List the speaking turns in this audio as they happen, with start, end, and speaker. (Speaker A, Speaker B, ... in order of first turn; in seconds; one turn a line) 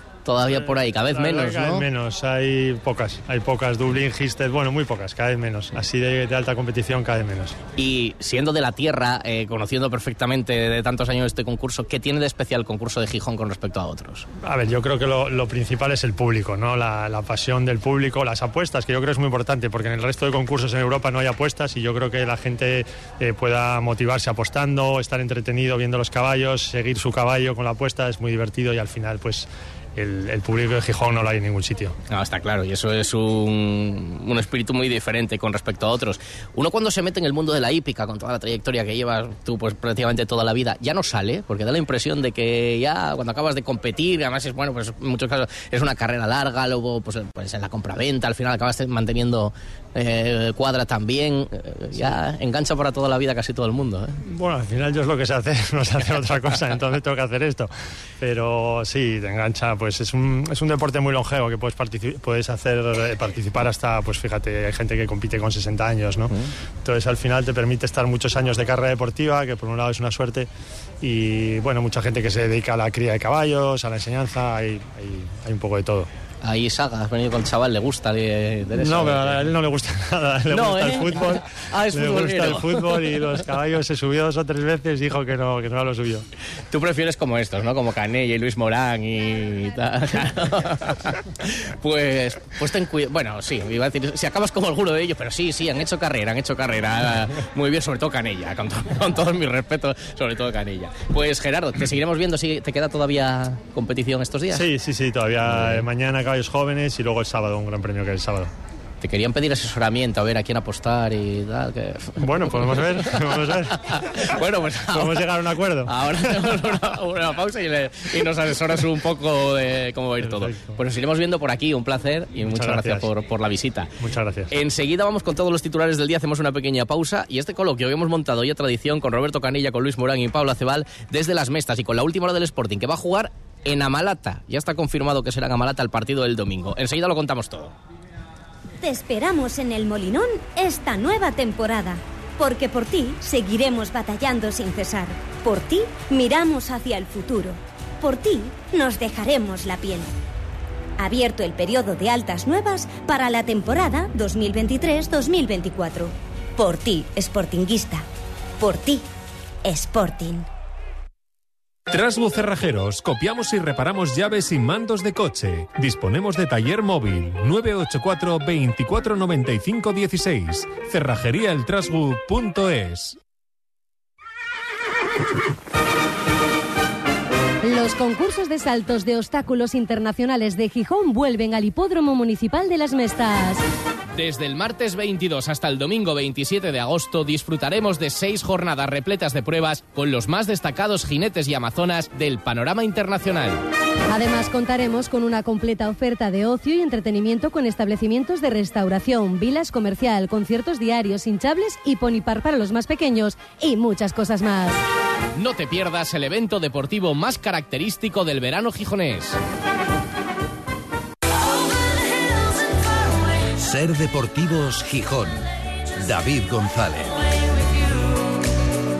Speaker A: 0.2-1.9
Speaker B: 0.5-7.5
Speaker A: 7.8-14.2
Speaker B: 14.4-31.9
Speaker A: 32.1-54.2
Speaker B: 54.2-66.3
Speaker B: 66.8-70.5
Speaker B: 71.0-76.1
Speaker A: 76.4-79.5
Speaker B: 78.8-86.2
Speaker A: 80.5-83.3
Speaker A: 86.7-104.7
Speaker B: 104.5-108.5
Speaker A: 105.5-105.8
Speaker A: 109.0-123.9
Speaker B: 112.2-116.6
Speaker B: 120.2-120.8
Speaker B: 122.4-123.1
Speaker B: 124.0-124.5
Speaker A: 124.5-137.7
Speaker C: 138.8-150.1
Speaker C: 151.0-158.0
Speaker C: 158.6-159.0
Speaker C: 159.6-160.5
Speaker D: 161.9-173.2
Speaker E: 177.6-183.6
Speaker A: 184.2-193.6
Speaker E: 194.1-204.8
Speaker A: 205.3-209.4
Speaker F: 213.6-215.4
Speaker F: 216.0-217.2